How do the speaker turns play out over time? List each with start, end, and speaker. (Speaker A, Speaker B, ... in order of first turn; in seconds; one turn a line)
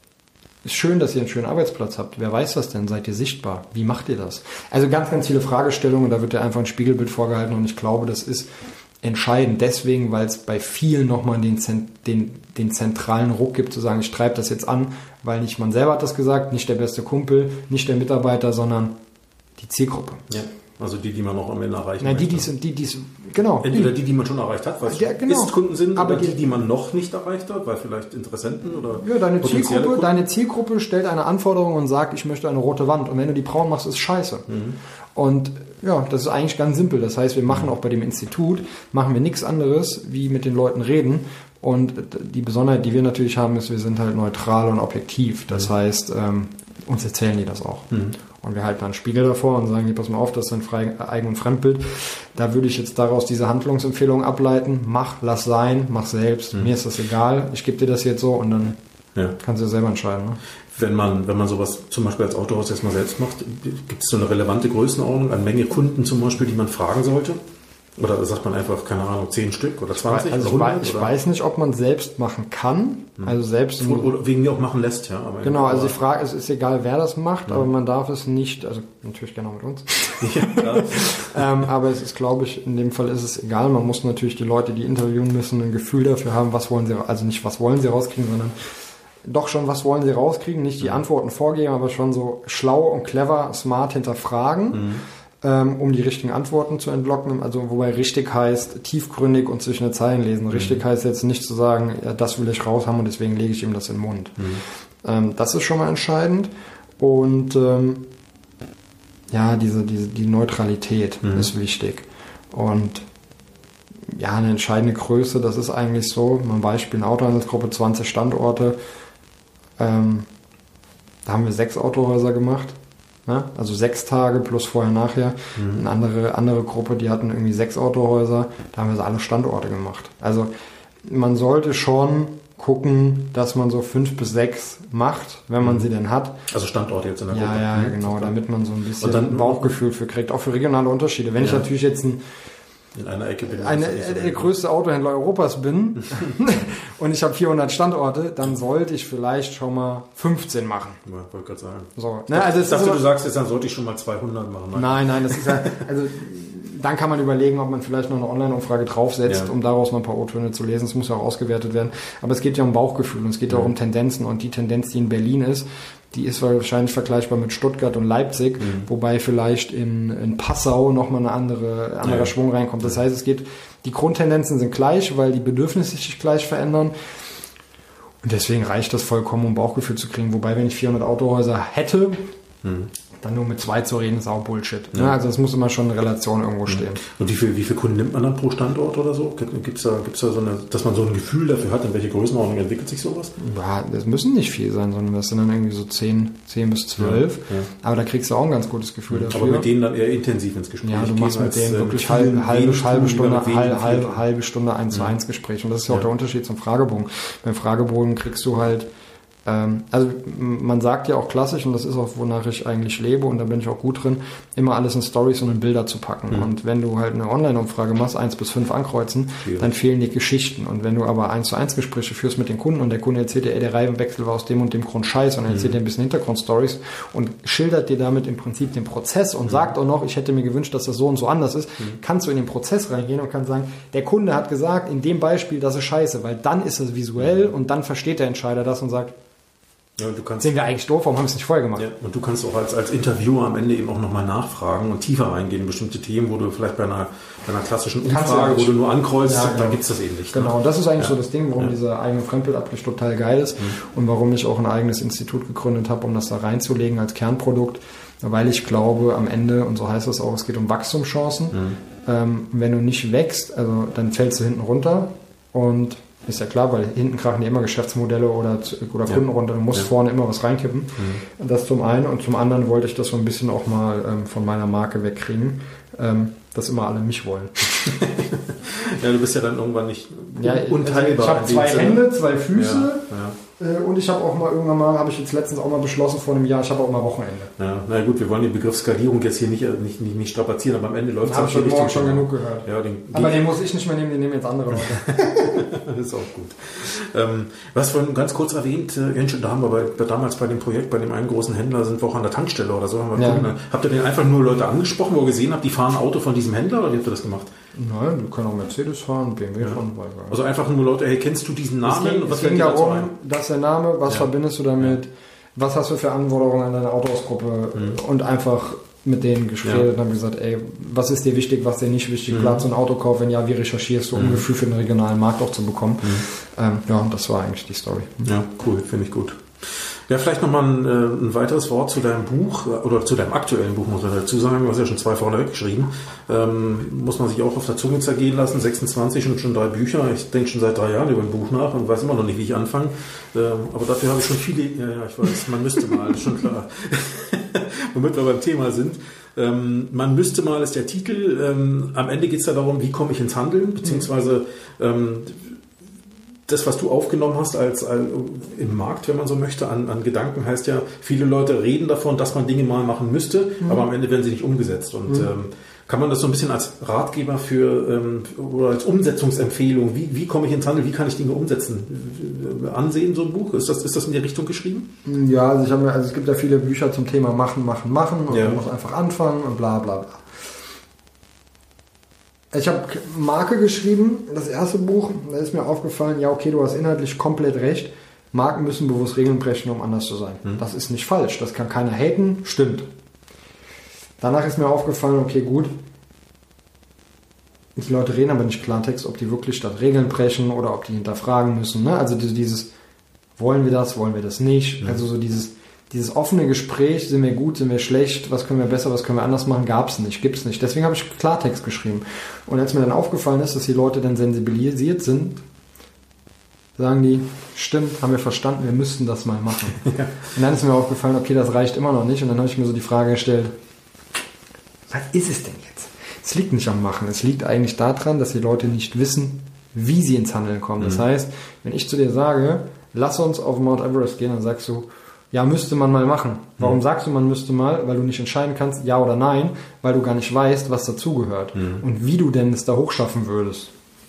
Speaker A: 0.6-8.5
Speaker A: 9.0-18.9
Speaker A: 19.6-20.2
Speaker B: 20.3-22.5
Speaker A: 22.0-23.9
Speaker B: 23.6-30.2
Speaker A: 24.9-26.4
Speaker A: 28.9-34.5
Speaker B: 34.5-34.8
Speaker A: 35.1-58.8
Speaker A: 59.3-60.4
Speaker B: 60.7-67.4
Speaker B: 68.0-71.1
Speaker A: 70.0-74.1
Speaker B: 73.2-76.0
Speaker A: 75.4-88.5
Speaker B: 80.2-81.5
Speaker A: 89.2-108.1
Speaker B: 94.7-95.0
Speaker B: 100.5-100.8
Speaker A: 109.3-113.0
Speaker A: 114.1-118.8
Speaker A: 119.8-120.3
Speaker A: 121.2-130.5
Speaker B: 125.6-125.8
Speaker A: 131.0-136.4
Speaker B: 136.5-138.3
Speaker A: 137.3-142.2
Speaker B: 139.0-139.7
Speaker B: 141.4-141.7
Speaker B: 142.9-144.5
Speaker A: 143.4-151.0
Speaker B: 151.0-155.8
Speaker A: 151.9-153.0
Speaker A: 154.7-176.9
Speaker B: 168.6-168.9
Speaker B: 172.0-172.3
Speaker A: 178.2-182.3
Speaker B: 182.6-182.9
Speaker A: 183.2-187.0
Speaker B: 186.7-193.3
Speaker A: 193.4-199.7
Speaker B: 197.0-197.7
Speaker B: 199.1-204.2
Speaker A: 200.8-208.9
Speaker A: 209.4-239.1
Speaker B: 219.4-219.7
Speaker B: 240.0-240.5
Speaker A: 240.4-241.9
Speaker B: 241.8-251.7
Speaker A: 248.0-277.9
Speaker B: 277.8-283.4
Speaker A: 280.4-287.5
Speaker B: 287.6-293.4
Speaker A: 291.2-295.7
Speaker B: 294.9-307.5
Speaker A: 303.1-303.5
Speaker A: 307.7-310.4
Speaker B: 310.3-313.1
Speaker A: 311.8-328.3
Speaker B: 322.3-322.6
Speaker B: 324.1-324.4
Speaker B: 328.2-355.6
Speaker B: 356.5-374.9
Speaker A: 375.0-380.2
Speaker B: 378.3-378.6
Speaker A: 382.5-392.9
Speaker A: 394.2-395.7
Speaker A: 397.8-402.7
Speaker A: 403.4-415.4
Speaker A: 416.8-423.5
Speaker B: 419.8-420.1
Speaker A: 424.9-443.7
Speaker B: 441.6-441.8